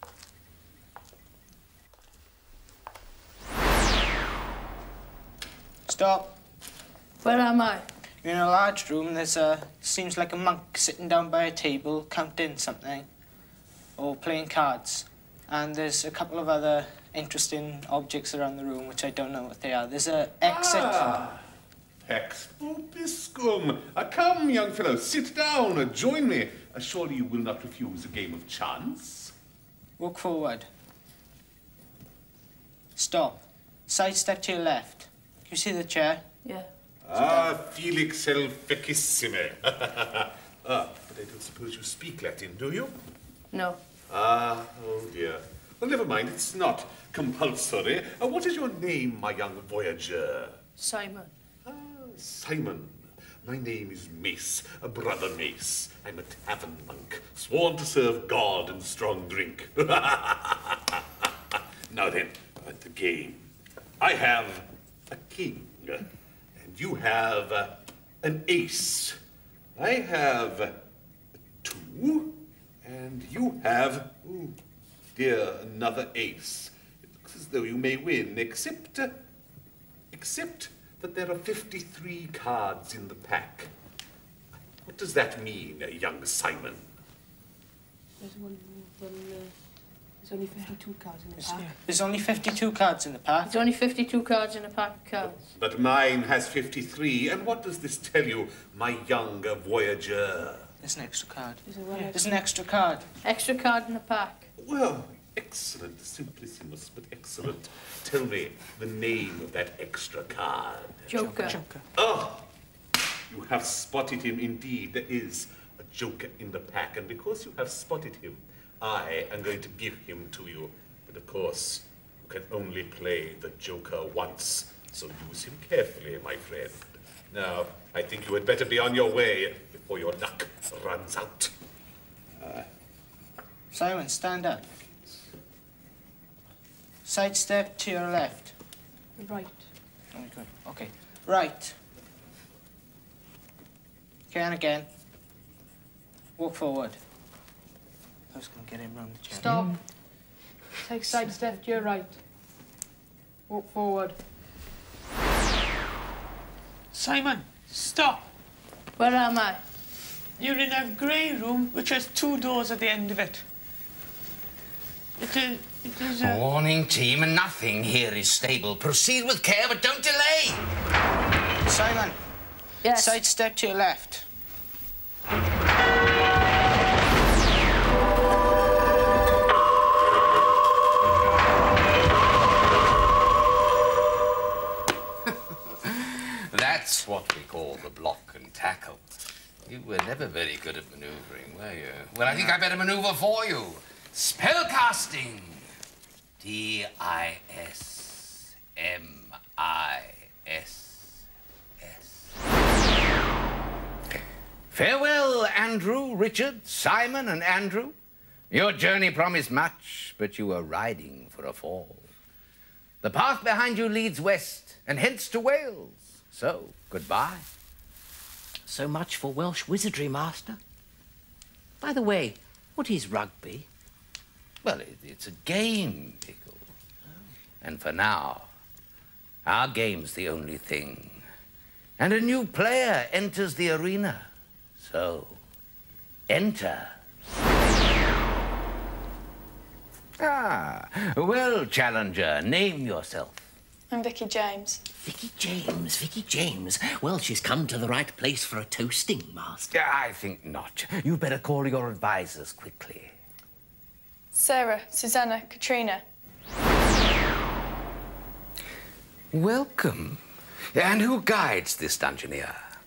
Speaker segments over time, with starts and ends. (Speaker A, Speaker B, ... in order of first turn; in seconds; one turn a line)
Speaker A: 5.9-6.3
Speaker B: 7.2-7.8
Speaker A: 8.2-13.1
Speaker A: 14.0-21.0
Speaker C: 20.4-21.4
Speaker C: 22.0-29.3
Speaker A: 30.0-30.7
Speaker A: 33.0-36.2
Speaker B: 36.4-36.7
Speaker C: 37.0-42.9
Speaker B: 43.5-43.8
Speaker C: 44.1-50.6
Speaker B: 50.8-51.3
Speaker C: 51.6-61.3
Speaker C: 61.9-63.5
Speaker C: 64.0-69.2
Speaker C: 69.8-70.8
Speaker C: 71.6-74.6
Speaker C: 75.1-79.2
Speaker C: 80.1-83.7
Speaker C: 84.8-86.9
Speaker D: 88.2-89.5
Speaker D: 90.2-91.8
Speaker A: 91.4-93.6
Speaker B: 93.4-95.4
Speaker C: 95.5-100.7
Speaker A: 100.8-103.1
Speaker D: 101.7-102.5
Speaker B: 103.2-104.5
Speaker C: 104.6-111.1
Speaker B: 111.1-111.6
Speaker D: 111.1-111.8
Speaker E: 111.4-111.7
Speaker C: 111.9-112.5
Speaker C: 113.3-131.5
Speaker C: 132.4-132.7
Speaker A: 133.7-134.7
Speaker A: 137.1-138.5
Speaker D: 139.2-139.6
Speaker A: 140.1-141.8
Speaker A: 144.3-144.9
Speaker A: 146.4-147.0
Speaker A: 148.3-149.7
Speaker B: 149.3-149.8
Speaker B: 150.8-152.2
Speaker D: 150.9-152.1
Speaker B: 153.5-154.1
Speaker E: 156.9-158.3
Speaker B: 159.0-159.6
Speaker E: 160.4-163.4
Speaker E: 165.2-166.4
Speaker F: 166.2-170.6
Speaker A: 171.7-172.2
Speaker B: 172.8-173.2
Speaker A: 172.9-174.2
Speaker F: 185.3-189.1
Speaker F: 189.7-195.7
Speaker F: 196.4-201.2
Speaker F: 201.8-202.3
Speaker F: 204.1-207.9
Speaker F: 208.5-212.1
Speaker F: 213.0-217.4
Speaker G: 218.7-220.6
Speaker G: 221.8-223.7
Speaker F: 224.6-226.7
Speaker F: 227.6-228.5
Speaker F: 229.4-231.2
Speaker F: 232.0-235.4
Speaker F: 236.3-236.9
Speaker F: 237.6-237.9
Speaker F: 240.2-243.4
Speaker H: 243.9-244.8
Speaker G: 245.0-249.7
Speaker F: 249.7-253.1
Speaker H: 254.3-256.0
Speaker F: 259.3-260.2
Speaker F: 260.7-262.6